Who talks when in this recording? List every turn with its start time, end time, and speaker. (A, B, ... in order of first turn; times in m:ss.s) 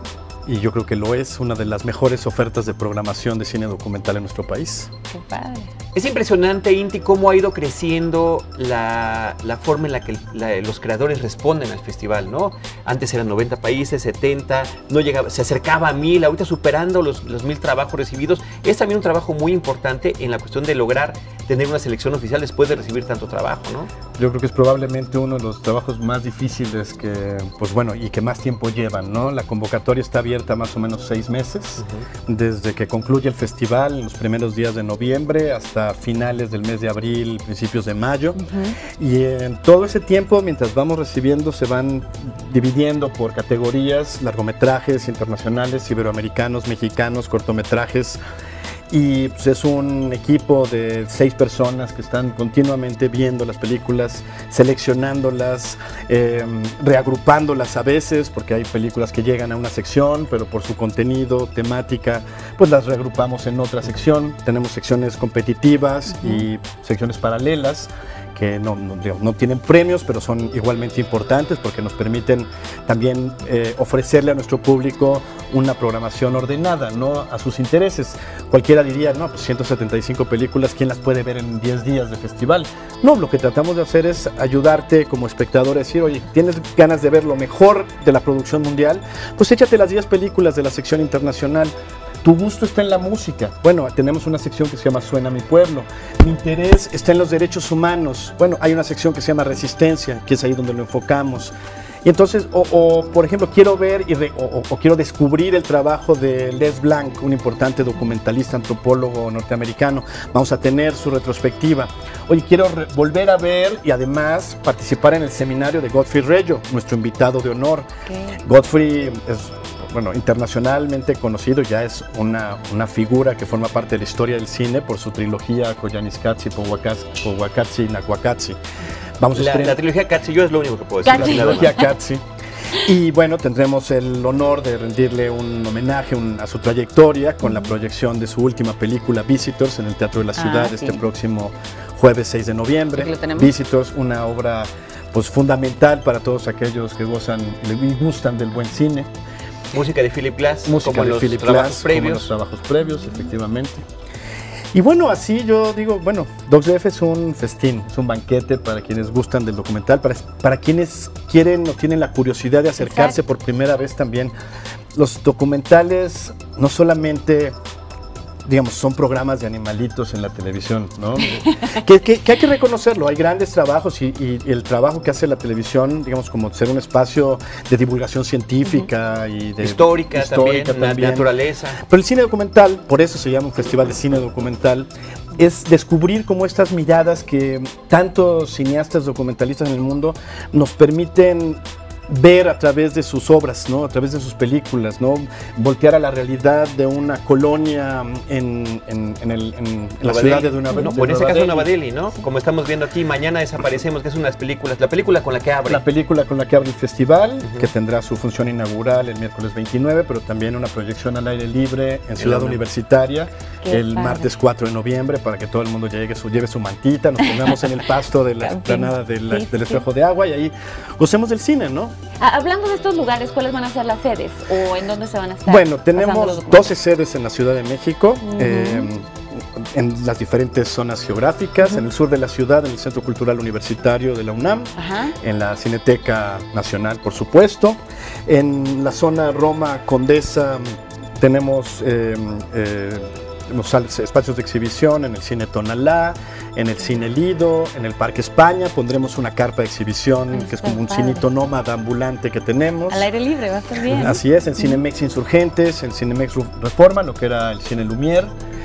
0:00.5-0:04.9 A
0:05.1-0:05.7 B
0:06.0-0:23.9 C
0:24.2-0:48.2 A
0:31.8-0:32.1 C
0:38.4-0:38.8 B
0:48.9-1:41.5 A
1:06.1-1:06.5 B
1:42.0-1:57.9 A
1:58.1-1:58.4 B
1:58.4-2:08.6 A
2:09.2-2:09.8 A
2:09.3-2:11.8 C
2:11.1-2:11.8 B
2:11.1-2:12.2 A
2:12.8-2:29.1 A
2:17.4-2:17.7 B
2:20.4-2:21.0 B
2:22.9-2:23.5 B
2:29.7-2:32.3 C
2:30.6-2:33.8 A
2:34.7-2:44.3 A
2:42.8-2:43.2 B
2:44.9-2:47.6 A
2:48.4-3:01.3 A
2:59.6-3:01.8 C
3:01.8-3:21.7 A
3:20.0-3:25.8 C
3:20.7-3:21.0 B
3:25.7-3:41.9 A
3:27.4-3:27.7 C
3:32.2-3:32.6 C
3:33.6-3:34.3 B
3:38.4-3:39.8 B
3:42.2-3:46.8 B
3:45.5-4:13.1 A
3:48.2-3:48.9 B
3:54.8-3:55.2 B
4:10.3-4:11.2 B
4:12.9-4:14.8 B
4:13.9-4:18.3 A